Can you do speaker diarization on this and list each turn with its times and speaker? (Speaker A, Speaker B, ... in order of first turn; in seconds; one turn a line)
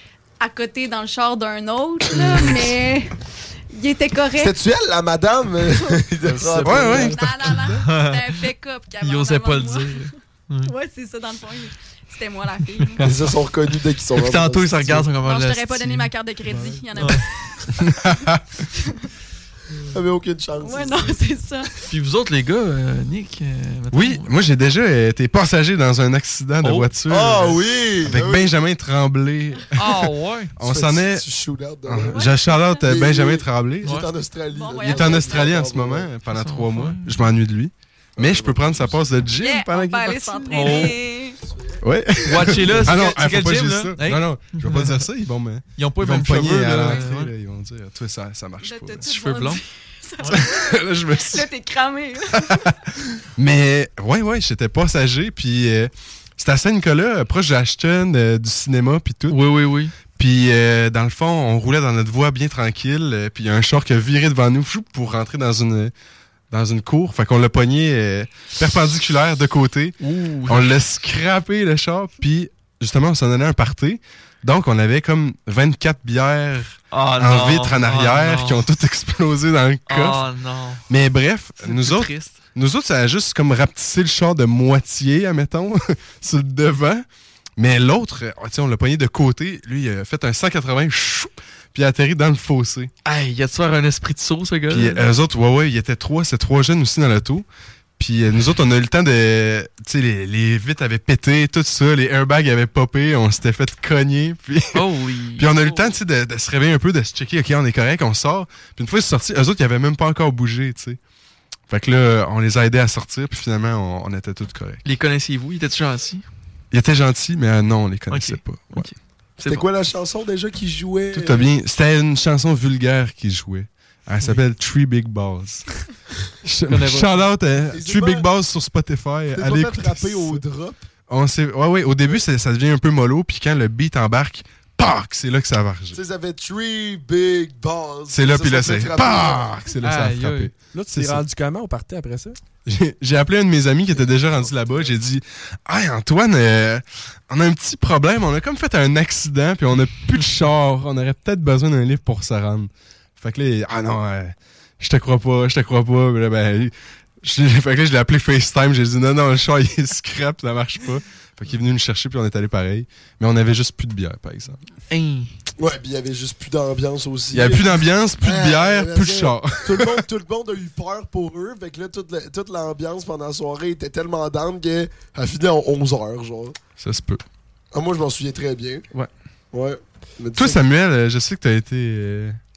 Speaker A: 0.4-3.1
Speaker A: 3.7-4.5
Speaker B: 4.4-7.5
Speaker A: 5.7-6.0
Speaker C: 6.3-6.7
Speaker D: 6.6-7.8
Speaker A: 6.9-10.1
Speaker E: 7.8-8.4
Speaker E: 9.0-10.7
Speaker A: 10.6-13.1
Speaker E: 12.8-13.3
Speaker B: 13.0-15.1
Speaker E: 14.1-16.1
Speaker A: 15.1-17.6
Speaker D: 17.9-18.4
Speaker B: 19.9-21.1
Speaker A: 20.6-21.7
Speaker E: 21.9-24.3
Speaker D: 23.9-31.2
Speaker E: 26.6-26.9
Speaker B: 27.1-28.5
Speaker E: 29.7-30.5
Speaker B: 30.6-32.3
Speaker D: 31.9-34.0
Speaker A: 32.0-32.9
Speaker B: 32.8-36.1
Speaker E: 33.8-34.1
Speaker A: 34.5-35.5
Speaker D: 34.8-40.9
Speaker E: 36.3-37.2
Speaker B: 38.2-39.1
Speaker A: 39.3-41.4
Speaker E: 40.5-41.0
Speaker B: 41.5-41.8
Speaker D: 41.8-49.1
Speaker E: 42.2-45.0
Speaker E: 45.7-47.3
Speaker A: 48.6-52.6
Speaker E: 49.0-49.6
Speaker D: 50.2-51.5
Speaker D: 52.3-52.7
Speaker D: 53.4-59.5
Speaker E: 59.3-59.9
Speaker D: 60.1-65.9
Speaker D: 66.5-80.3
Speaker E: 70.0-70.8
Speaker E: 76.9-78.6
Speaker E: 79.9-80.8
Speaker D: 80.9-87.0
Speaker E: 81.6-82.5
Speaker D: 87.6-92.9
Speaker E: 93.0-95.0
Speaker D: 94.7-97.5
Speaker D: 98.0-111.0
Speaker E: 104.7-106.0
Speaker D: 111.7-114.8
Speaker E: 114.8-116.2
Speaker D: 116.7-118.9
Speaker E: 118.1-119.7
Speaker B: 119.4-121.5
Speaker D: 121.1-125.8
Speaker D: 126.4-130.4
Speaker E: 126.7-127.3
Speaker B: 127.7-128.2
Speaker B: 129.3-130.8
Speaker D: 131.1-136.0
Speaker B: 135.9-139.6
Speaker D: 138.1-141.2
Speaker E: 139.8-140.5
Speaker C: 140.7-142.4
Speaker D: 142.7-164.6
Speaker B: 143.9-144.9
Speaker E: 164.9-165.3
Speaker B: 165.6-176.5
Speaker D: 167.3-170.0
Speaker D: 176.8-177.2
Speaker B: 177.7-178.8
Speaker B: 179.5-180.6
Speaker D: 180.3-182.4